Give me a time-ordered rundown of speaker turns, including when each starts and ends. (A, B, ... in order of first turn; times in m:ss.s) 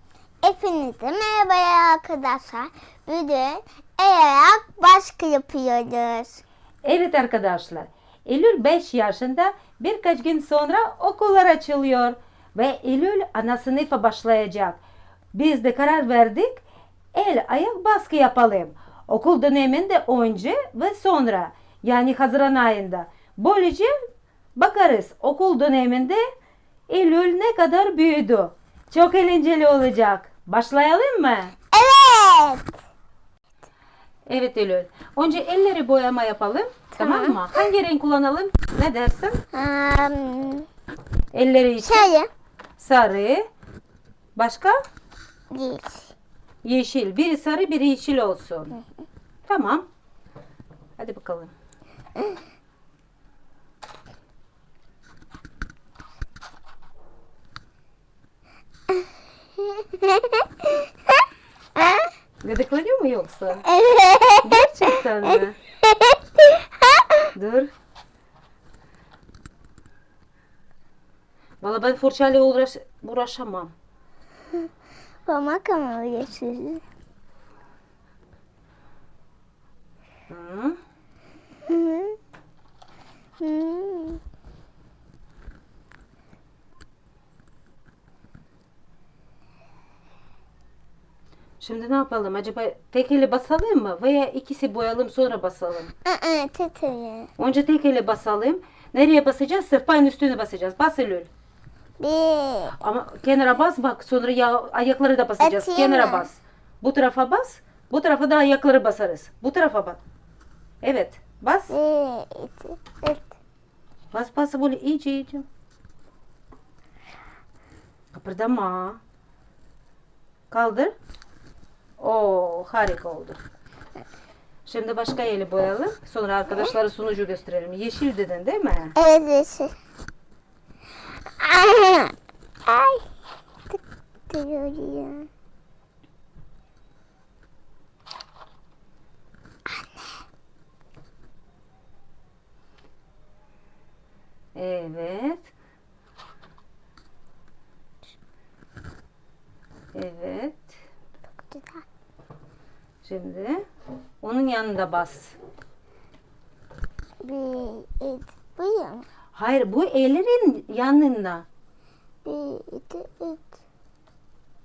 0:00.4-0:06.4 A
0:06.8-0:14.8 B
0:15.3-0:16.6 B
0:17.1-0:23.9 B
0:24.6-0:26.2 B
0:26.9-0:31.6 B
0:31.7-0:32.7 A
0:34.3-0:39.4 B
0:37.0-0:37.5 A
0:39.5-0:40.7 A
0:41.3-0:42.0 B
0:41.8-0:42.3 A
0:42.8-0:43.5 B
0:44.4-0:44.8 B
0:45.5-0:46.1 A
0:46.6-0:48.8 B
0:49.5-0:49.9 B
0:51.0-0:51.5 B
0:59.6-1:00.9 A
1:01.8-1:02.0 A
1:02.4-1:03.7 B
1:03.7-1:05.0 A
1:04.4-1:05.6 B
1:05.9-1:07.3 A
1:07.3-1:07.7 B
1:11.6-1:13.7 B
1:15.2-1:16.8 A
1:20.3-1:20.8 B
1:21.7-1:22.2 A
1:23.4-1:24.2 A
1:31.6-1:35.9 B
1:36.0-1:37.3 A
1:37.4-1:41.3 B
1:42.0-1:42.7 A
1:42.7-1:50.0 B
1:45.4-1:46.3 A
1:50.8-1:51.7 B
1:51.7-1:53.3 A
1:54.1-1:55.4 B
1:58.1-1:59.0 B
2:00.5-2:00.9 B
2:02.0-2:03.4 B
2:04.7-2:08.9 B
2:09.0-2:09.7 A
2:11.4-2:12.1 A
2:12.7-2:13.1 A
2:14.3-2:15.3 A
2:19.7-2:20.2 A
2:24.5-2:25.5 B
2:29.9-2:30.8 B
2:31.3-2:31.8 A
2:33.0-2:33.6 B
2:34.2-2:35.4 B
2:37.2-2:39.1 A
2:39.3-2:41.4 B
2:42.2-2:43.5 A